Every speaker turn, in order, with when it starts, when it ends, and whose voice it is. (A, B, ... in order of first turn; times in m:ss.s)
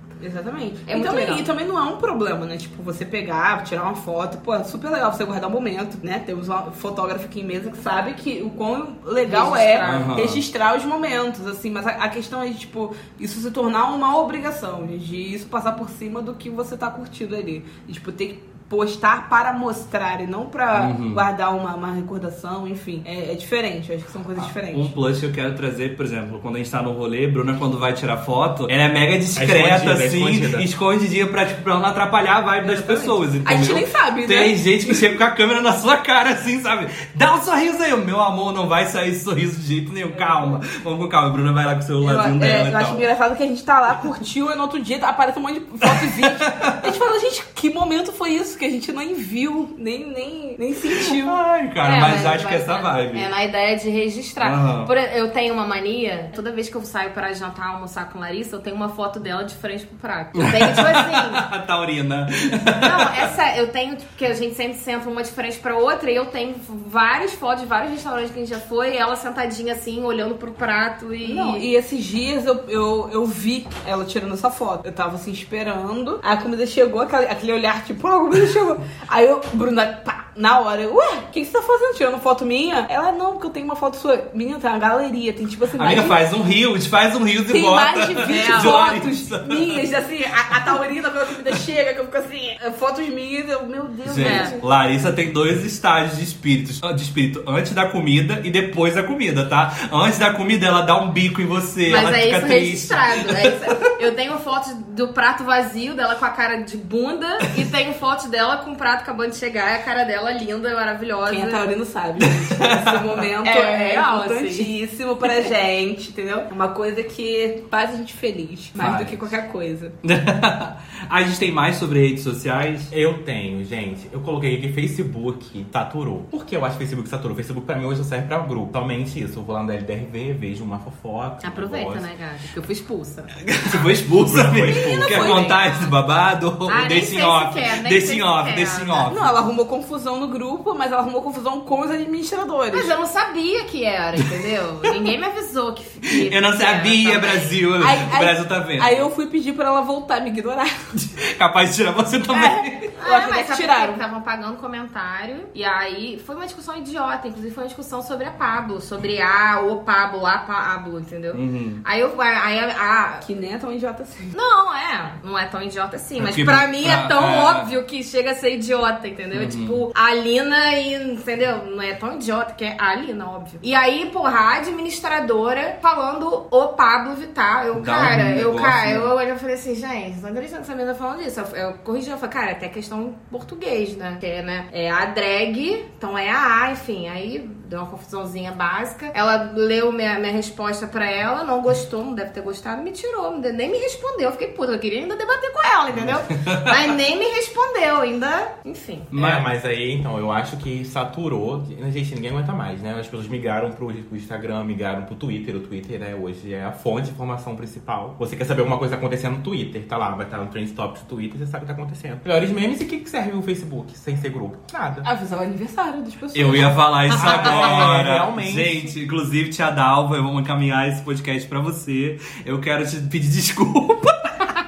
0:00.2-0:24.9 A
0:00.8-0:01.4 B
0:09.2-0:10.2 B
0:09.8-0:10.4 C
0:20.7-0:21.2 C
0:24.4-0:43.1 C
0:29.4-0:30.7 D
0:32.6-0:35.0 A
0:40.1-0:40.6 A
0:42.0-0:51.4 A
0:45.8-0:46.9 C
0:50.9-0:53.3 C
0:51.8-1:01.5 B
0:54.4-0:54.9 C
1:00.4-1:03.2 C
1:02.7-1:11.7 B
1:11.2-1:26.2 A
1:25.8-1:29.8 C
1:27.5-1:34.6 A
1:28.2-1:28.8 B
1:34.0-1:43.6 C
1:34.2-1:34.6 B
1:41.9-1:51.7 B
1:51.2-1:59.9 A
1:52.2-1:53.2 C
1:53.4-1:54.7 B
1:58.8-1:59.3 C
2:00.0-2:02.9 C
2:02.9-2:12.0 D
2:11.4-2:13.4 B
2:13.4-2:19.3 C
2:14.2-2:15.3 D
2:14.7-2:15.9 B
2:15.0-2:15.5 A
2:16.6-2:19.0 B
2:19.1-2:22.9 A
2:22.7-2:27.6 B
2:26.1-2:29.1 C
2:27.8-2:30.8 A
2:30.9-2:32.9 C
2:32.3-2:34.0 A
2:33.0-2:43.2 B
2:41.3-2:41.8 C
2:43.2-2:44.3 A
2:44.3-3:19.1 B
2:46.2-2:47.7 C
2:49.3-2:49.8 C
2:57.7-2:59.1 C
3:16.3-3:16.7 C
3:19.1-3:19.4 C
3:19.1-3:35.0 D
3:35.0-3:36.9 A
3:36.3-3:44.5 C
3:37.1-3:38.9 D